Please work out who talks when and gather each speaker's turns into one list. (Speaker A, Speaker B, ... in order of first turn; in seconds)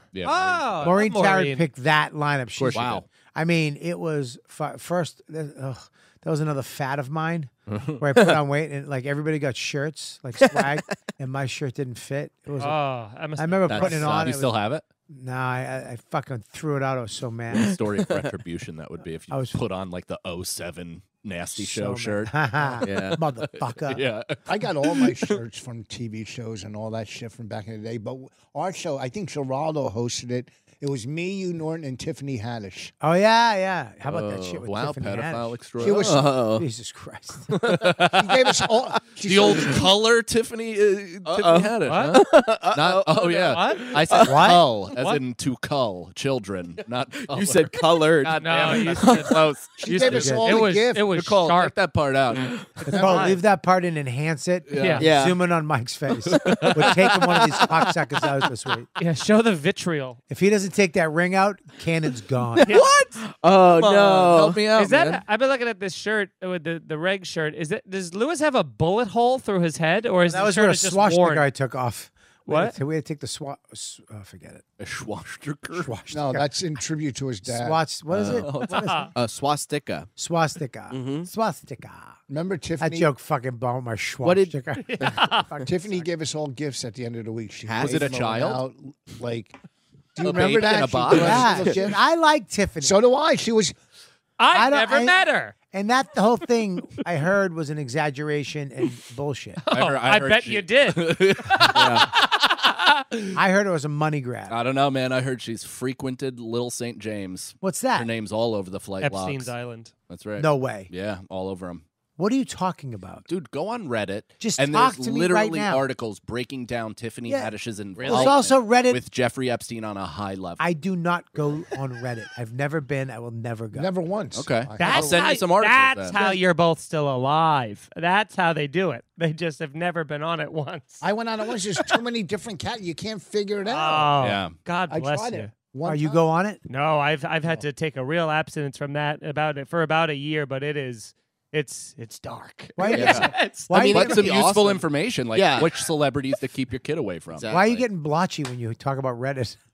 Speaker A: 0.1-1.0, 2.5-3.0, 7.7-8.0, 13.7-14.8, 17.5-25.3, 34.1-36.2, 37.6-38.6, 39.2-50.1, 51.1-52.7, 54.7-55.1, 56.3-57.0, 63.7-65.2, 74.8-75.9, 78.2-79.0, 87.7-88.6, 90.2-91.7, 99.7-102.5, 103.1-103.4, 104.5-109.5, 110.1-111.8, 113.3-120.6, 124.3-126.2, 134.2-134.5, 142.9-147.5
Speaker B: 0.2-1.6, 12.6-14.3, 41.9-42.2, 43.3-44.0, 45.0-45.2, 48.4-51.8, 52.8-53.4, 54.7-55.0, 59.0-60.2, 62.7-63.0, 64.7-71.4, 72.5-72.8, 78.7-79.1, 84.8-85.5, 94.4-95.5, 99.6-102.3, 109.0-109.9, 124.8-131.0, 133.7-135.5, 136.7-143.7
Speaker C: 0.8-12.8, 13.4-14.6, 15.1-17.8, 19.3-19.6, 21.6-24.0, 33.0-37.5, 44.2-44.6, 50.1-50.6, 52.9-58.9, 60.3-62.8, 70.3-74.6, 75.8-76.5, 77.4-79.1, 80.2-82.2, 82.8-86.1, 91.1-93.0, 94.5-95.2, 95.7-99.6, 103.3-104.5, 107.6-108.1, 110.4-110.9, 112.2-113.3, 114.4-115.8, 117.3-119.0, 120.6-123.9, 135.8-136.6, 142.8-144.4, 147.5-149.6
Speaker D: 10.5-10.7, 22.8-23.2, 35.9-36.6, 37.5-37.9, 41.2-44.8, 47.2-49.4, 55.0-55.4, 56.5-57.7, 62.6-64.6, 78.1-78.5, 79.1-80.1, 80.9-81.3, 84.2-85.3, 91.1-91.8, 118.0-118.3, 142.8-145.9, 147.3-147.8
Speaker E: 24.5-32.9, 35.8-36.3, 38.1-39.9, 49.8-51.1, 52.9-53.3, 76.1-77.8, 82.3-83.1, 85.7-89.5, 90.1-92.0, 92.8-93.8, 123.7-125.2, 131.0-134.1, 134.9-136.2